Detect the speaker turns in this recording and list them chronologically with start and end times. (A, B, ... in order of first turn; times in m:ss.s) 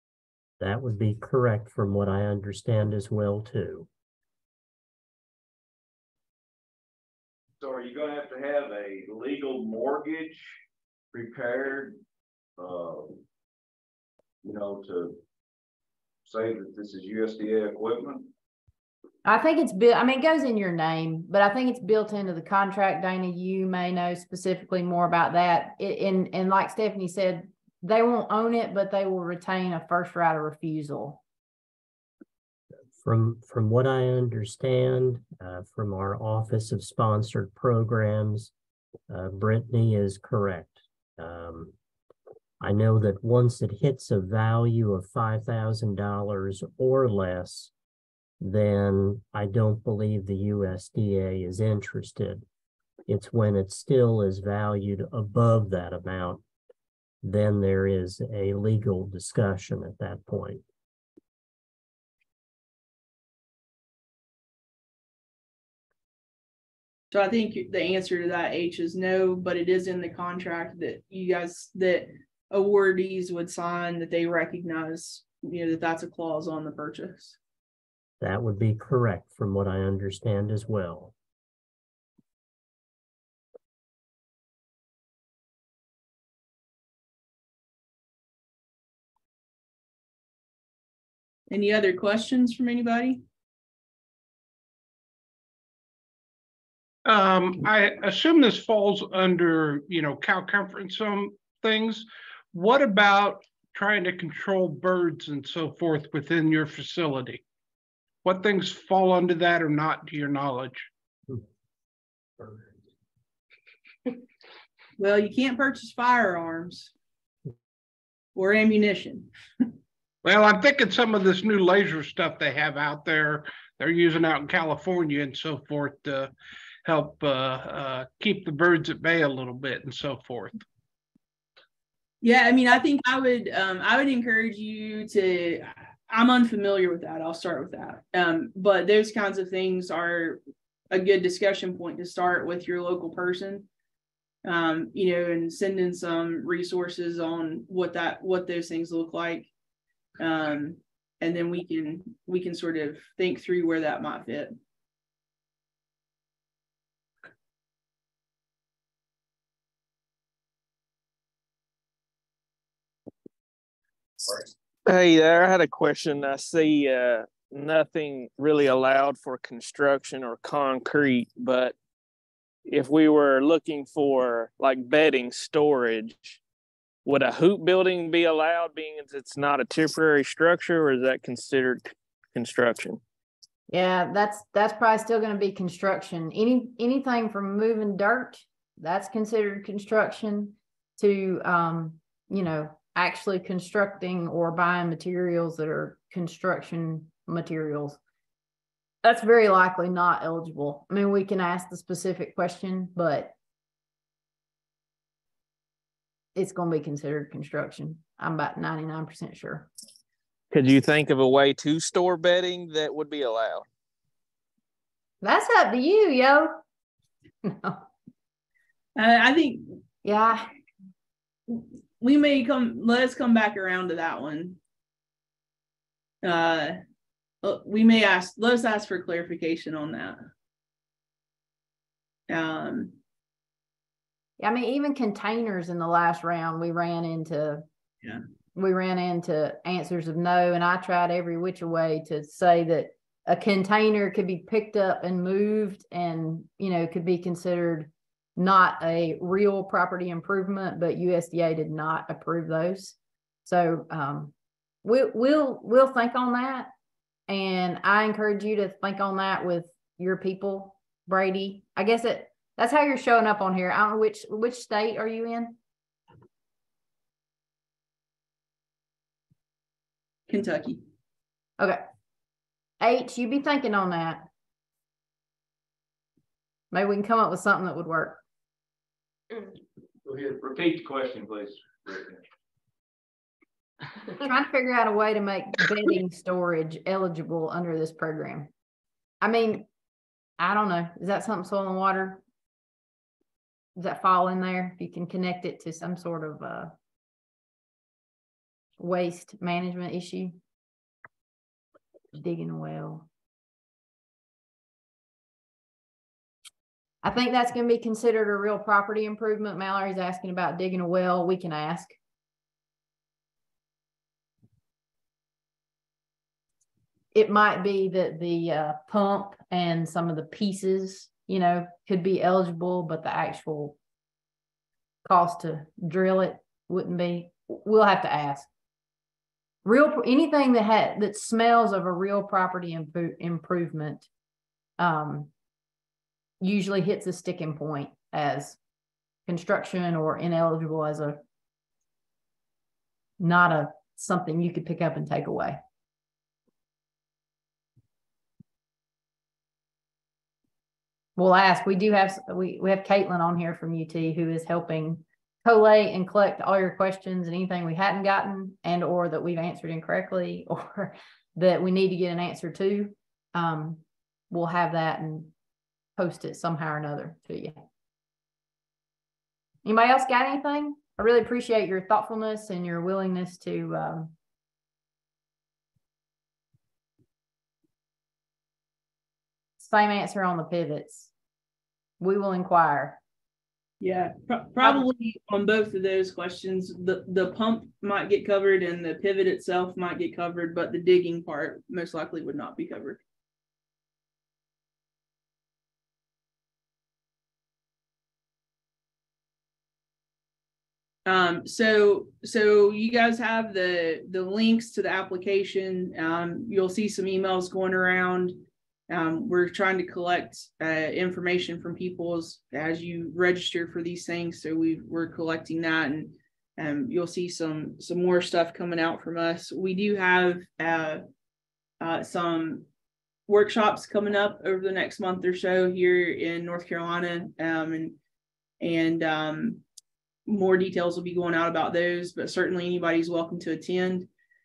0:00.6-0:03.9 A
0:07.6-0:10.6 B
0:11.1-0:12.0 B
0:12.6-0:13.2 B
0:14.4-0:15.2 B
0:16.2-0:18.3 B
0:19.2-0:31.2 C
0:33.0-0:38.5 A
0:39.1-0:41.7 A
0:42.6-0:47.7 A
0:48.4-0:52.4 A
0:53.1-0:56.4 A
0:57.2-1:00.6 A
1:07.1-1:17.4 D
1:18.2-1:21.1 A
1:31.5-1:33.2 D
1:37.0-1:47.4 E
1:48.2-1:50.9 E
1:55.0-1:56.9 D
1:58.3-1:59.7 D
2:00.2-2:06.3 E
2:06.8-2:10.6 E
2:12.2-2:23.7 D
2:24.4-2:29.5 D
2:30.2-2:34.5 D
2:44.8-2:51.7 F
2:52.7-2:56.4 F
2:57.0-3:03.0 F
3:03.7-3:18.0 C
3:19.0-3:23.3 C
3:26.3-3:29.7 C
3:30.5-3:33.6 F
3:35.2-3:36.6 C
3:37.4-3:37.8 C
3:39.0-3:39.8 D
3:40.0-3:40.5 C
3:41.5-3:44.6 D
3:46.2-3:46.8 D
3:47.4-3:50.3 D
3:52.3-3:53.0 D
3:54.4-3:57.6 C
3:58.6-4:14.3 C
4:14.8-4:16.7 C
4:17.3-4:25.6 C
4:30.3-4:30.8 D
4:32.8-4:34.2 C
4:36.7-4:38.2 C
4:40.0-4:42.2 B
4:44.2-4:48.5 C
4:49.2-4:49.7 C
4:50.4-4:52.2 C
4:53.8-4:56.7 C
4:58.8-5:00.4 C
5:02.1-5:03.1 C
5:07.0-5:12.0 C
5:17.1-5:23.8 C
5:25.0-5:28.5 C
5:29.6-5:34.1 C
5:34.8-5:35.3 C
5:36.4-5:38.6 C
5:39.3-5:41.2 C
5:43.2-5:45.6 C
5:51.2-6:05.3 C
6:06.0-6:07.6 C
6:09.6-6:14.1 C
6:19.6-6:21.1 C
6:22.0-6:23.0 C
6:23.8-6:33.0 D
6:41.0-7:01.0 D
7:01.8-7:02.7 D
7:03.3-7:08.0 D
7:08.6-7:09.6 D
7:10.2-7:14.1 D